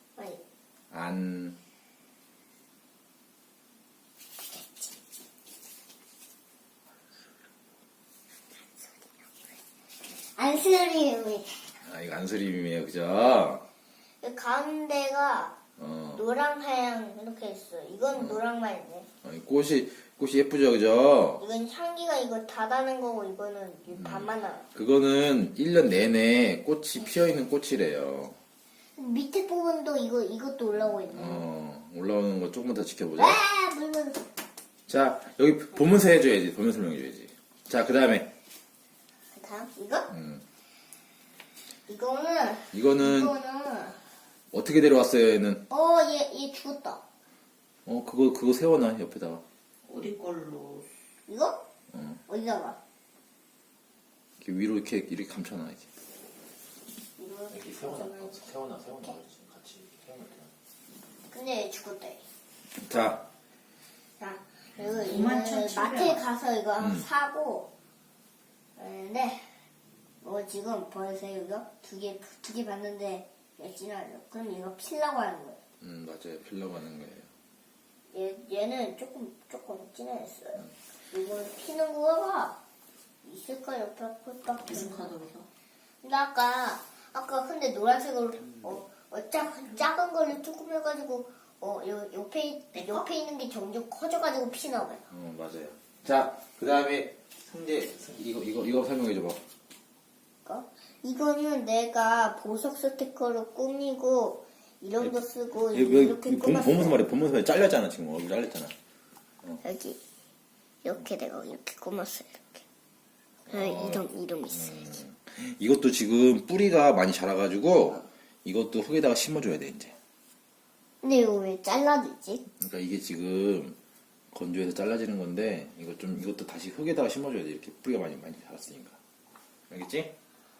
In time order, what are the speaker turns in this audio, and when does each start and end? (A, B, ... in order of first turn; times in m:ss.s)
0:00.2-0:00.4 A
0:00.9-0:01.6 B
0:04.5-0:04.9 A
0:10.2-0:11.5 A
0:11.8-0:13.6 B
0:14.2-0:15.5 A
0:15.8-0:16.2 B
0:16.1-0:19.1 A
0:18.1-0:18.4 B
0:19.2-0:21.4 B
0:21.4-0:24.6 A
0:23.9-0:28.4 B
0:29.0-0:31.4 A
0:31.0-0:33.4 B
0:33.2-0:34.2 A
0:34.9-0:38.3 B
0:39.3-0:40.1 A
0:40.1-0:40.4 B
0:41.9-0:44.0 A
0:42.7-0:43.3 B
0:44.5-0:45.6 B
0:45.7-0:47.0 A
0:47.8-0:49.4 B
0:49.8-0:50.8 C
0:51.3-0:51.6 A
0:51.9-0:52.2 B
0:52.3-0:52.8 A
0:54.4-0:55.9 B
0:57.2-0:58.4 A
0:57.5-1:00.5 B
1:01.3-1:02.2 A
1:02.8-1:03.2 B
1:04.2-1:07.7 A
1:04.8-1:05.1 B
1:05.1-1:06.2 C
1:06.8-1:07.0 B
1:08.8-1:09.5 A
1:10.2-1:15.6 A
1:15.8-1:17.3 B
1:18.1-1:22.6 A
1:23.2-1:25.2 A
1:24.7-1:25.5 C
1:26.0-1:35.0 A
1:35.1-1:39.4 B
1:40.4-1:47.1 A
1:45.7-1:48.7 B
1:49.6-1:50.0 A
1:50.8-1:52.6 A
1:53.4-1:59.9 B
1:53.5-1:55.0 A
2:01.0-2:02.4 A
2:02.6-2:03.8 B
2:04.3-2:09.0 B
2:09.7-2:10.1 B